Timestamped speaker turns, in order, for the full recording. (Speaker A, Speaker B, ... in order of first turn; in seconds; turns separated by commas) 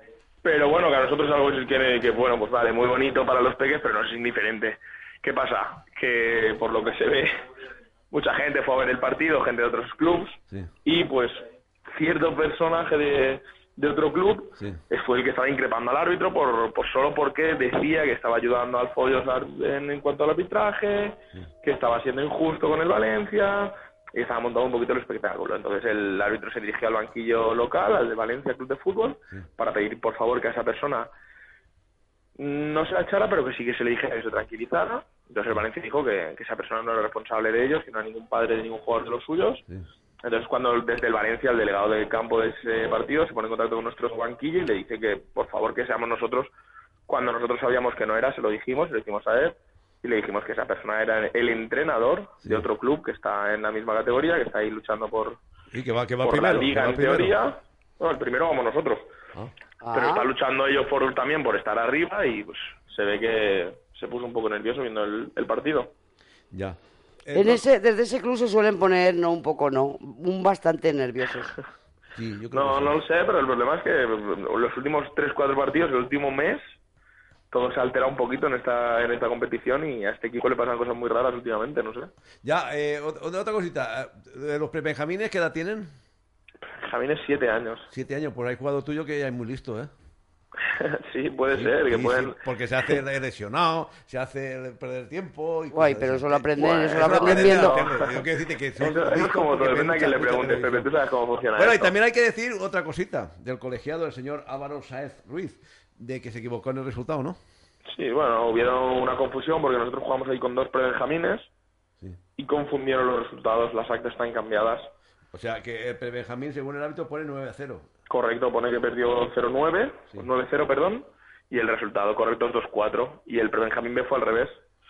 Speaker A: 0.4-7.3, Speaker A: 8.1-31.1, Speaker B: 14.6-14.8, Speaker A: 32.4-39.6, Speaker A: 40.2-46.5, Speaker A: 47.1-55.4, Speaker B: 55.7-57.4, Speaker A: 56.2-59.1, Speaker C: 59.8-60.3, Speaker A: 59.9-65.9, Speaker B: 66.5-67.6, Speaker C: 67.3-71.5, Speaker B: 72.1-73.0, Speaker A: 72.5-76.6, Speaker A: 77.5-82.1, Speaker B: 82.4-85.9, Speaker A: 86.7-87.9, Speaker B: 87.9-89.9, Speaker A: 90.7-92.4, Speaker B: 91.5-100.9, Speaker C: 95.7-97.8, Speaker A: 96.6-98.2, Speaker A: 98.8-101.9, Speaker B: 101.5-107.4, Speaker A: 107.9-111.5, Speaker A: 112.4-114.9, Speaker B: 115.3-117.9, Speaker A: 118.1-124.5